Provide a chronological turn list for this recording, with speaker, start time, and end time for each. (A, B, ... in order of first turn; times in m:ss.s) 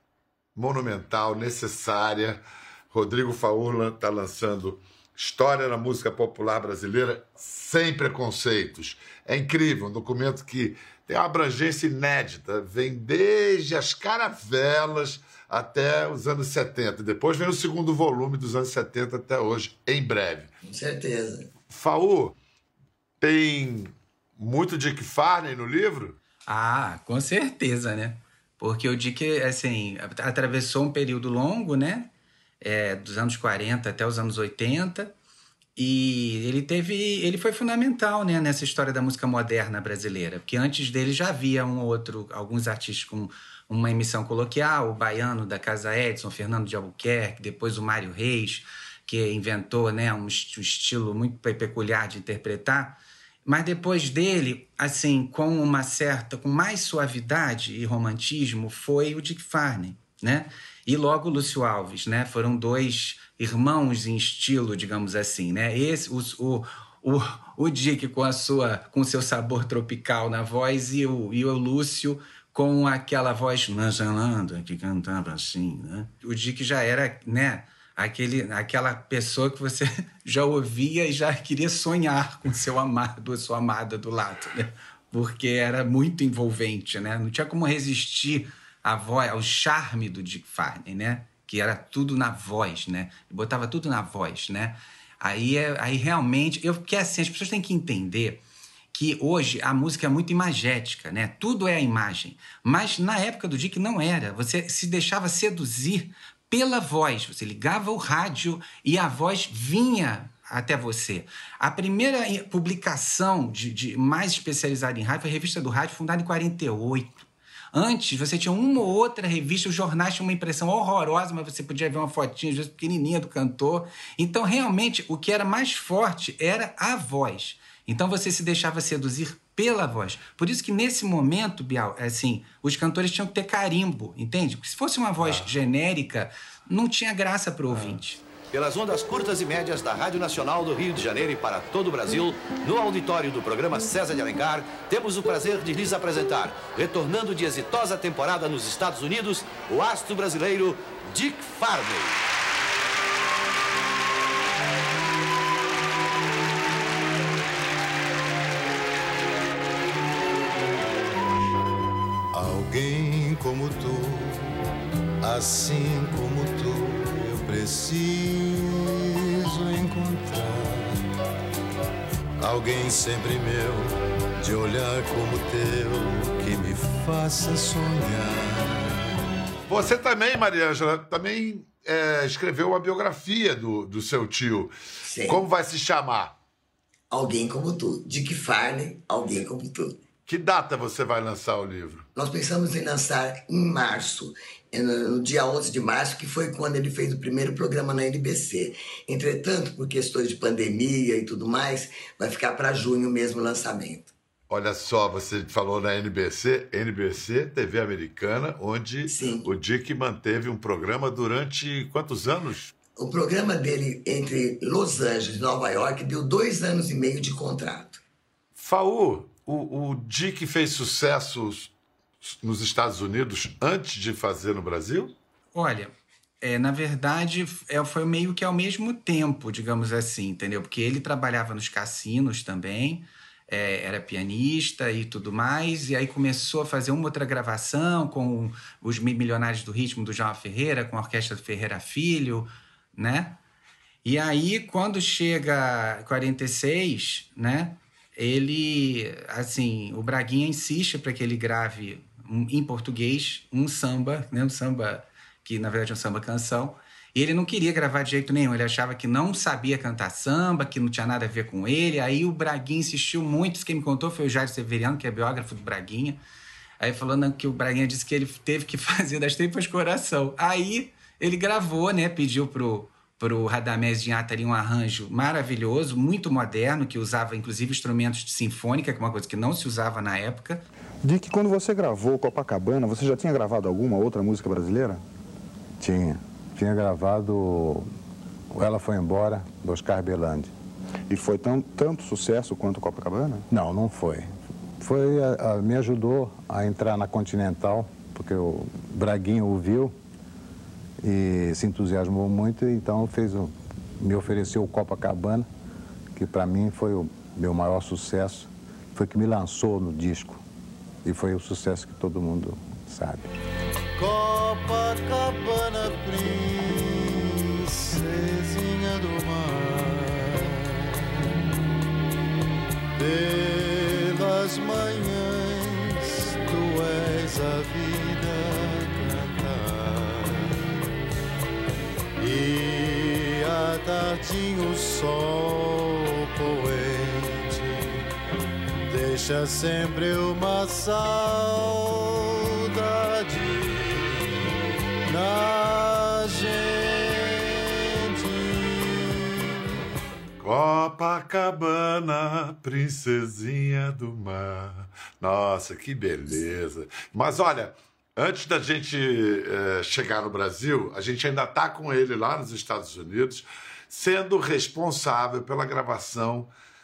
0:00.5-0:20.5 A
0:20.6-0:21.5 B
0:21.7-0:22.3 A
0:23.2-0:26.2 A
0:26.5-0:32.1 C
0:32.6-0:35.1 C
0:35.8-1:38.4 C
1:38.9-2:18.2 C
2:18.5-2:32.2 D
2:42.3-2:44.6 E
2:45.2-2:51.0 E
2:52.4-2:59.0 E
2:59.7-3:06.3 A
3:05.0-3:05.4 B
3:07.1-3:10.0 B
3:10.2-3:12.1 A
3:12.1-3:24.1 B
3:24.5-3:32.7 A
3:29.1-3:29.5 B
3:33.0-3:38.0 B
3:38.6-3:41.7 A
3:42.2-3:45.1 A
3:45.5-4:03.4 C
4:04.0-4:26.2 C
4:26.8-4:40.6 C
4:41.0-4:45.0 F
4:45.8-4:47.9 G
4:48.5-4:50.5 G
4:51.1-4:53.4 F
4:53.5-4:54.3 G
4:54.8-4:59.9 G
5:01.0-5:05.5 G
5:06.1-5:10.4 G
5:11.0-5:13.3 G
5:14.0-5:21.4 E
5:23.0-5:30.6 E
5:32.2-5:38.1 E
5:38.8-5:44.4 E
5:45.0-5:49.3 E
5:50.4-6:06.5 A